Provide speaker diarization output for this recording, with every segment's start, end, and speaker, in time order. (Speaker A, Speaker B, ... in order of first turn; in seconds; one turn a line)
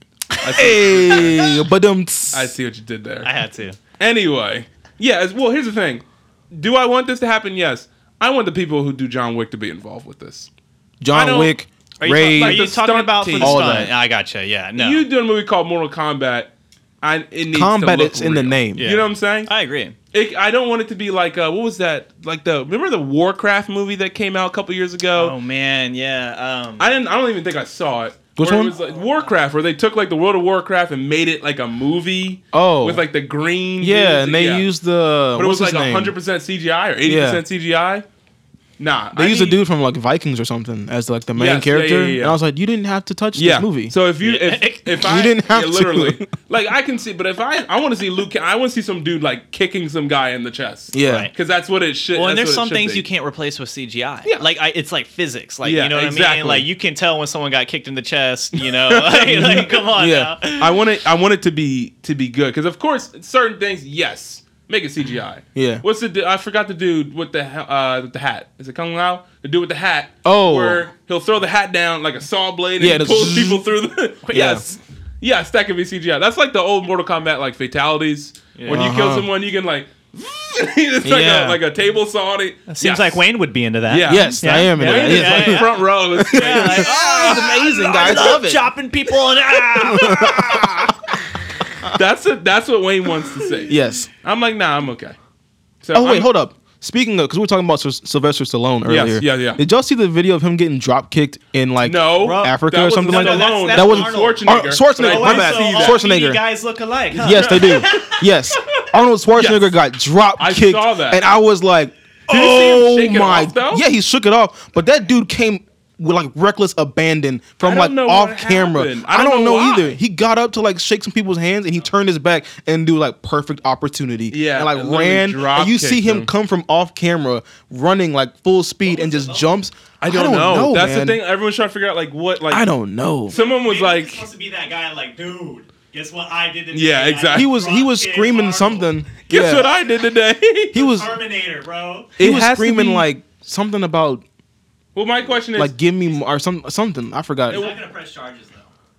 Speaker A: 0.4-1.6
Speaker B: 0.5-2.5
Speaker A: 2.3-3.3
Speaker C: 3.2-3.8
Speaker A: 4.0-10.5
Speaker B: 11.0-12.6
Speaker A: 11.1-11.6
Speaker C: 12.0-15.1
Speaker A: 12.3-13.9
Speaker B: 13.3-13.9
Speaker A: 14.8-16.5
Speaker A: 17.0-19.5
Speaker B: 17.5-18.8
Speaker C: 18.8-19.9
Speaker A: 20.1-25.4
Speaker C: 25.1-27.0
Speaker A: 26.8-34.7
Speaker B: 28.4-28.7
Speaker C: 28.8-29.3
Speaker B: 32.5-33.0
Speaker B: 33.8-36.1
Speaker A: 35.3-38.0
Speaker B: 37.0-37.4
Speaker A: 38.8-39.6
Speaker B: 39.1-43.9
Speaker A: 41.3-42.4
Speaker A: 43.3-53.0
Speaker C: 44.2-45.1
Speaker B: 45.0-46.2
Speaker B: 50.9-51.3
Speaker C: 51.0-51.3
Speaker C: 52.1-60.7
Speaker A: 55.6-56.7
Speaker A: 58.9-59.7
Speaker B: 59.9-60.4
Speaker A: 60.6-83.2
Speaker B: 65.5-65.8
Speaker B: 70.2-70.8
Speaker B: 72.8-73.6
Speaker C: 74.2-74.8
Speaker B: 74.3-74.6
Speaker C: 78.5-78.9
Speaker B: 78.7-79.3
Speaker B: 81.0-81.6
Speaker C: 82.7-90.8
Speaker A: 83.9-88.2
Speaker B: 84.1-88.7
Speaker B: 89.6-90.9
Speaker A: 91.9-95.2
Speaker B: 93.7-94.1
Speaker A: 95.8-96.3
Speaker B: 95.9-106.4
Speaker A: 98.8-99.6
Speaker A: 101.8-106.0
Speaker C: 102.2-108.1
Speaker A: 107.1-108.2
Speaker B: 107.2-131.2
Speaker A: 109.3-109.8
Speaker A: 110.4-111.2
Speaker A: 112.3-113.8
Speaker A: 117.6-120.0
Speaker A: 124.3-126.3
Speaker C: 128.8-129.6
Speaker A: 130.0-132.7
Speaker B: 132.5-133.3
Speaker A: 133.2-134.3
Speaker C: 133.3-138.9
Speaker A: 136.7-137.5
Speaker B: 137.3-139.7
Speaker A: 139.3-140.8
Speaker B: 140.7-141.1
Speaker C: 140.7-142.1
Speaker A: 142.2-143.1
Speaker B: 142.2-144.2
Speaker A: 144.9-145.7
Speaker B: 145.5-147.7
Speaker C: 147.5-148.7
Speaker A: 147.5-147.8